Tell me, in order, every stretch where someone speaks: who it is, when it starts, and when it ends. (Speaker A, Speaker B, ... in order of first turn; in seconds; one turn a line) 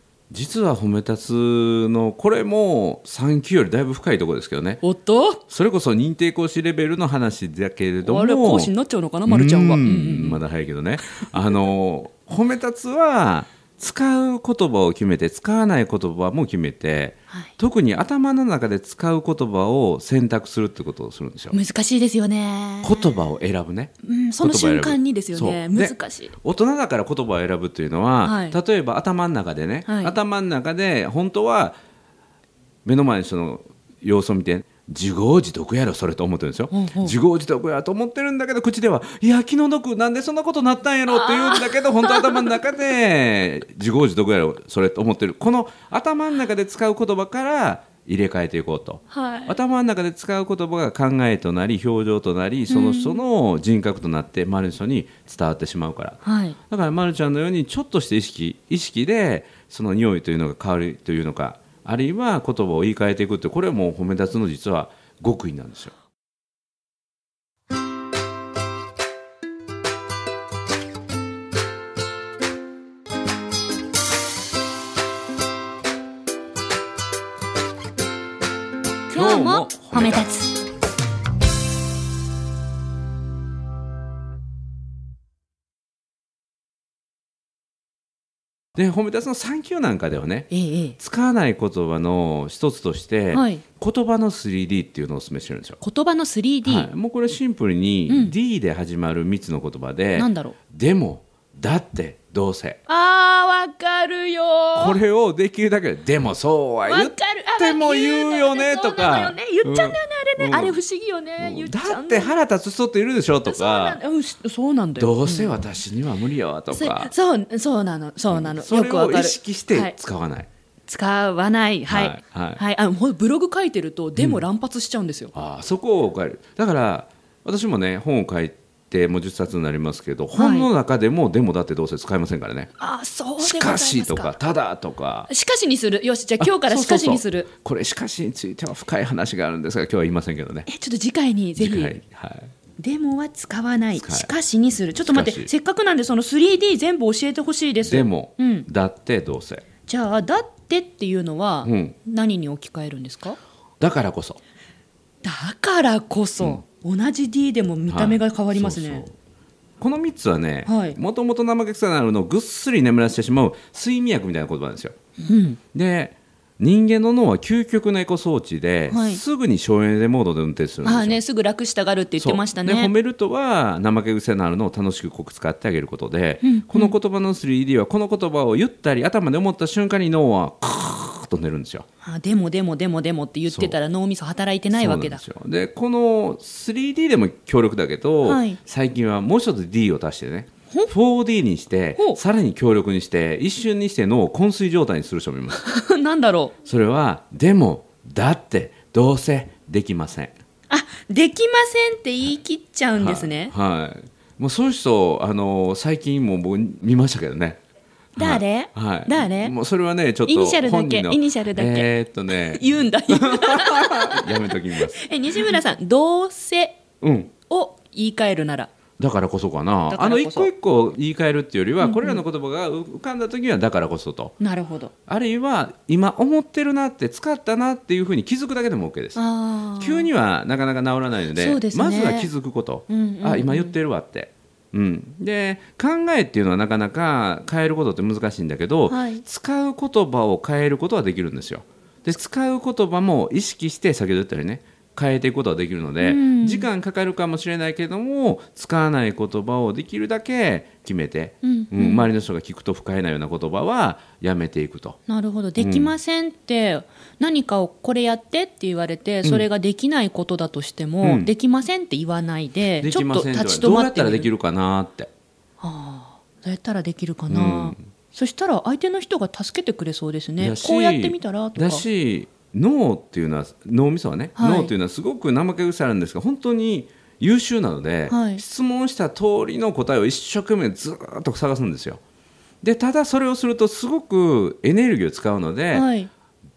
Speaker A: 0.3-4.8
Speaker B: 4.8-5.4
Speaker A: 5.5-8.7
Speaker B: 8.0-10.4
Speaker A: 9.3-21.6
Speaker B: 21.5-23.2
Speaker A: 22.8-31.8
Speaker B: 24.0-26.4
Speaker B: 28.2-28.6
Speaker B: 29.9-30.1
Speaker A: 32.9-65.9
Speaker B: 36.7-37.2
Speaker B: 41.1-42.8
Speaker B: 49.1-49.6
Speaker B: 52.7-53.2
Speaker B: 56.2-56.6
Speaker B: 79.1-80.5
Speaker A: 79.1-80.3
Speaker A: 88.8-95.8
Speaker B: 90.5-91.0
Speaker B: 93.3-93.6
Speaker B: 95.8-96.9
Speaker A: 96.7-102.8
Speaker B: 98.1-98.3
Speaker B: 100.2-100.6
Speaker B: 102.9-105.0
Speaker A: 104.8-110.8
Speaker B: 106.8-112.3
Speaker A: 111.4-114.0
Speaker B: 113.5-115.6
Speaker A: 115.0-117.1
Speaker B: 116.7-120.0
Speaker A: 118.3-120.5
Speaker B: 120.9-125.3
Speaker A: 121.9-122.6
Speaker A: 124.2-124.4
Speaker A: 125.3-132.7
Speaker B: 130.3-130.7
Speaker B: 132.8-134.3
Speaker A: 133.4-135.3
Speaker B: 135.3-137.5
Speaker A: 136.4-140.7
Speaker B: 140.7-142.0
Speaker A: 141.6-142.5
Speaker B: 142.8-148.7
Speaker A: 143.9-144.3
Speaker A: 145.0-145.5
Speaker A: 147.8-149.6
Speaker B: 149.9-153.4
Speaker A: 151.6-151.9
Speaker A: 153.8-154.4
Speaker B: 155.2-159.1
Speaker A: 157.9-159.1
Speaker A: 159.8-164.9
Speaker B: 160.7-161.0
Speaker B: 165.2-165.6
Speaker A: 165.7-171.2
Speaker B: 168.9-169.2
Speaker B: 170.8-172.9
Speaker A: 172.2-181.9
Speaker B: 176.4-176.9
Speaker B: 182.0-185.2
Speaker A: 183.5-183.8
Speaker A: 184.7-195.6
Speaker B: 188.2-188.6
Speaker B: 195.6-196.5
Speaker A: 196.7-200.3
Speaker B: 200.7-203.5
Speaker A: 202.9-207.6
Speaker B: 208.2-209.5
Speaker A: 208.2-215.5
Speaker B: 210.3-216.8
Speaker A: 217.0-217.3
Speaker B: 217.5-218.7
Speaker A: 219.0-224.3
Speaker B: 219.9-220.5
Speaker B: 221.8-222.2
Speaker B: 224.4-224.9
Speaker A: 225.1-229.2
Speaker B: 229.2-230.1
Speaker A: 229.8-255.0
Speaker B: 231.4-232.3
Speaker B: 232.9-233.7
Speaker B: 238.9-239.2
Speaker B: 246.0-246.7
Speaker B: 251.4-252.1
Speaker B: 255.1-264.3
Speaker A: 255.6-255.9
Speaker A: 261.0-261.3
Speaker A: 262.8-265.1
Speaker B: 265.6-271.9
Speaker A: 267.3-267.8
Speaker A: 270.4-282.0
Speaker B: 274.4-274.7
Speaker B: 278.1-278.4
Speaker A: 282.6-285.9
Speaker B: 285.7-286.1